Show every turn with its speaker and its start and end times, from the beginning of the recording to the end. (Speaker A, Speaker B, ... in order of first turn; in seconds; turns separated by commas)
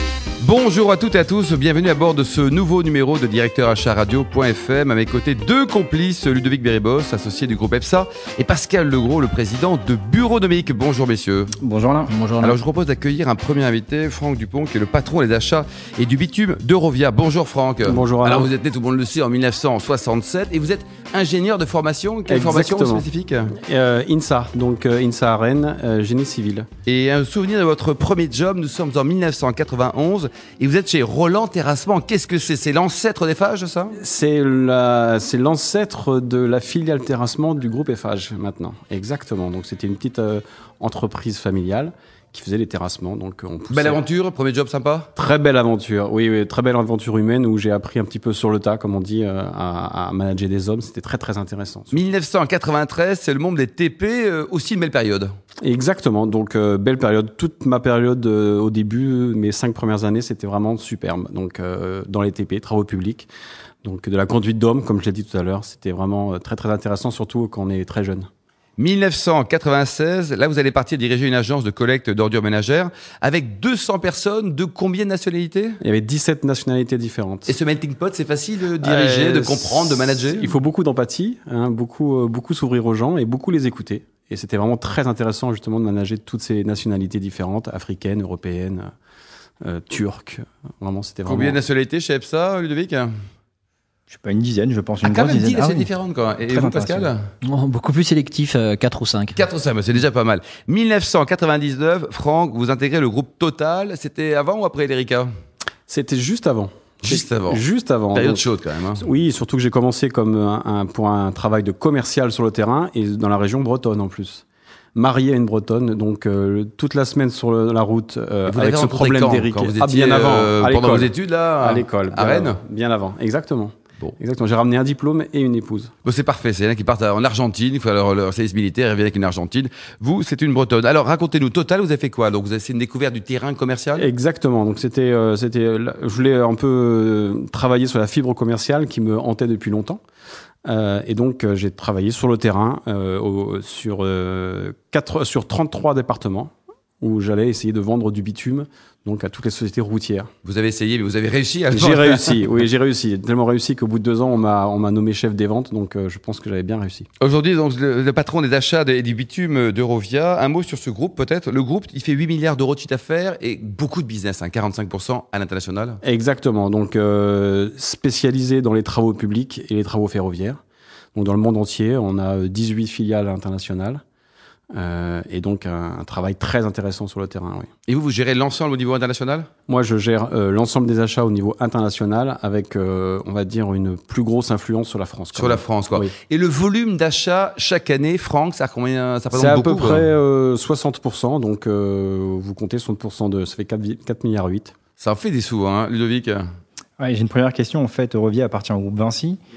Speaker A: 0.4-11.5, Speaker B: 11.6-12.1, Speaker C: 12.1-12.6, Speaker A: 12.4-23.5, Speaker D: 17.8-18.5, Speaker D: 22.3-26.7, Speaker A: 26.9-34.0, Speaker D: 34.0-44.0, Speaker A: 43.7-45.1, Speaker D: 45.2-52.0, Speaker A: 51.9-55.3, Speaker D: 55.6-63.3, Speaker D: 63.8-68.3, Speaker A: 68.8-75.8, Speaker D: 75.8-77.5, Speaker A: 77.5-80.5, Speaker D: 78.8-88.9, Speaker D: 89.6-91.6, Speaker A: 91.2-93.1, Speaker B: 94.1-95.9, Speaker A: 95.0-97.2, Speaker B: 96.5-97.1, Speaker C: 97.4-99.4, Speaker A: 99.3-105.3, Speaker D: 105.9-125.9, Speaker A: 107.0-109.0, Speaker A: 118.5-122.6, Speaker A: 126.0-134.1, Speaker D: 133.9-140.0, Speaker D: 140.7-150.3, Speaker A: 150.4-152.4, Speaker D: 151.7-157.1, Speaker A: 157.2-166.0, Speaker D: 166.0-170.6, Speaker D: 171.2-174.0, Speaker D: 174.7-177.7, Speaker A: 177.9-179.5, Speaker D: 179.7-186.1, Speaker A: 185.3-190.1, Speaker D: 189.3-194.7, Speaker A: 195.0-196.4, Speaker B: 197.0-199.4